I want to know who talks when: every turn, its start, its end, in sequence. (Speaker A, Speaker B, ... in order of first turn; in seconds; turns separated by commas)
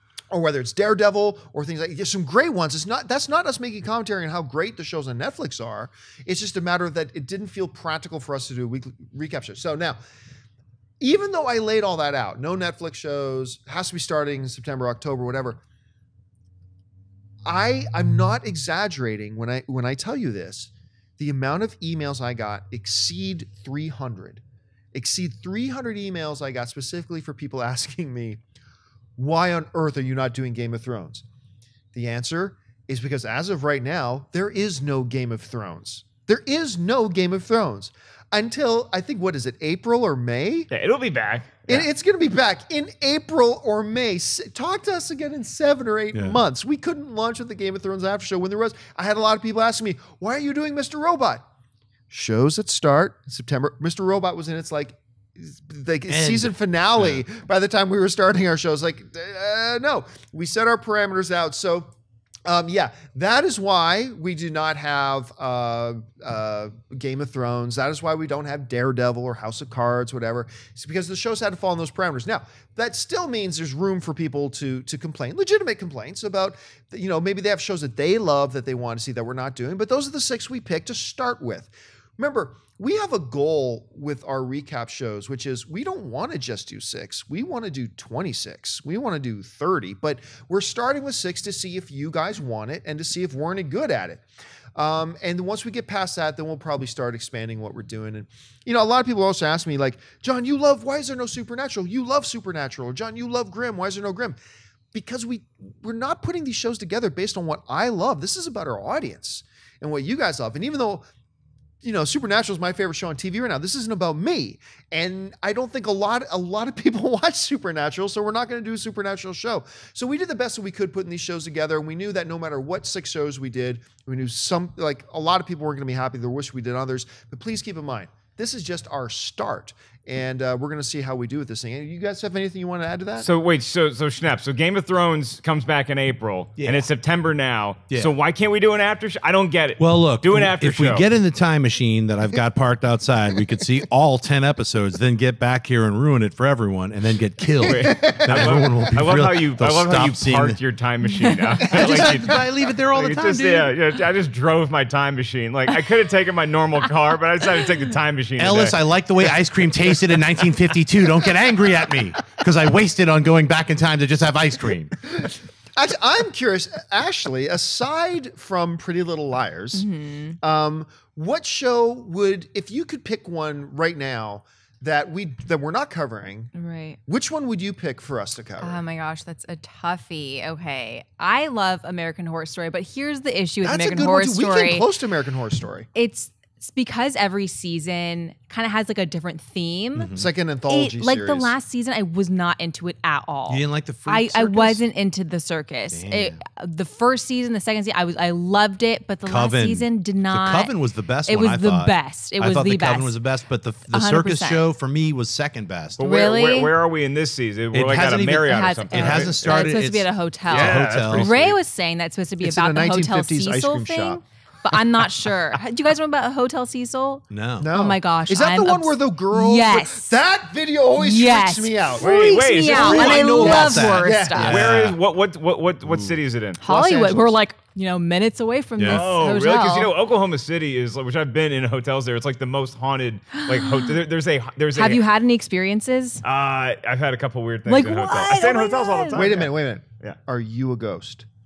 Speaker A: 0.3-10.0, Speaker A: 11.0-15.6, Speaker A: 17.4-24.4, Speaker A: 24.9-28.4, Speaker A: 29.2-31.2, Speaker A: 31.9-40.7, Speaker B: 40.7-41.9, Speaker A: 41.7-51.4, Speaker C: 46.1-46.4, Speaker A: 52.1-61.9, Speaker C: 56.1-57.2, Speaker A: 62.4-94.2, Speaker A: 94.7-104.4, Speaker A: 104.9-111.0, Speaker A: 111.8-133.3, Speaker B: 133.2-141.0, Speaker C: 136.6-136.9, Speaker C: 139.8-150.6, Speaker B: 147.6-158.8, Speaker A: 147.7-148.7, Speaker C: 151.6-153.7, Speaker A: 151.8-152.3, Speaker C: 158.4-164.9, Speaker A: 165.2-169.9, Speaker D: 169.7-170.4, Speaker A: 170.4-176.5, Speaker D: 176.5-177.0, Speaker A: 177.1-178.8, Speaker D: 178.6-184.8, Speaker A: 183.6-185.9, Speaker D: 185.9-190.1, Speaker C: 189.9-190.3, Speaker A: 190.1-191.5, Speaker D: 190.7-200.7, Speaker C: 193.5-194.8, Speaker C: 195.9-196.4, Speaker C: 199.2-206.0, Speaker D: 201.2-203.2, Speaker D: 203.9-204.6, Speaker B: 206.0-209.7, Speaker D: 206.0-206.7, Speaker C: 207.7-211.6, Speaker D: 208.4-220.2, Speaker B: 210.5-211.3, Speaker A: 212.4-214.2, Speaker C: 217.3-217.7, Speaker A: 217.6-222.4, Speaker D: 221.0-224.6, Speaker B: 222.0-223.8, Speaker C: 222.6-225.0, Speaker A: 223.4-224.7, Speaker B: 224.4-226.6, Speaker C: 225.8-226.2, Speaker D: 226.6-229.9, Speaker A: 226.6-227.4, Speaker C: 228.8-229.0, Speaker B: 228.9-235.0, Speaker D: 233.4-233.9, Speaker D: 234.7-236.2, Speaker B: 236.2-239.5, Speaker D: 237.7-239.3, Speaker A: 239.1-241.2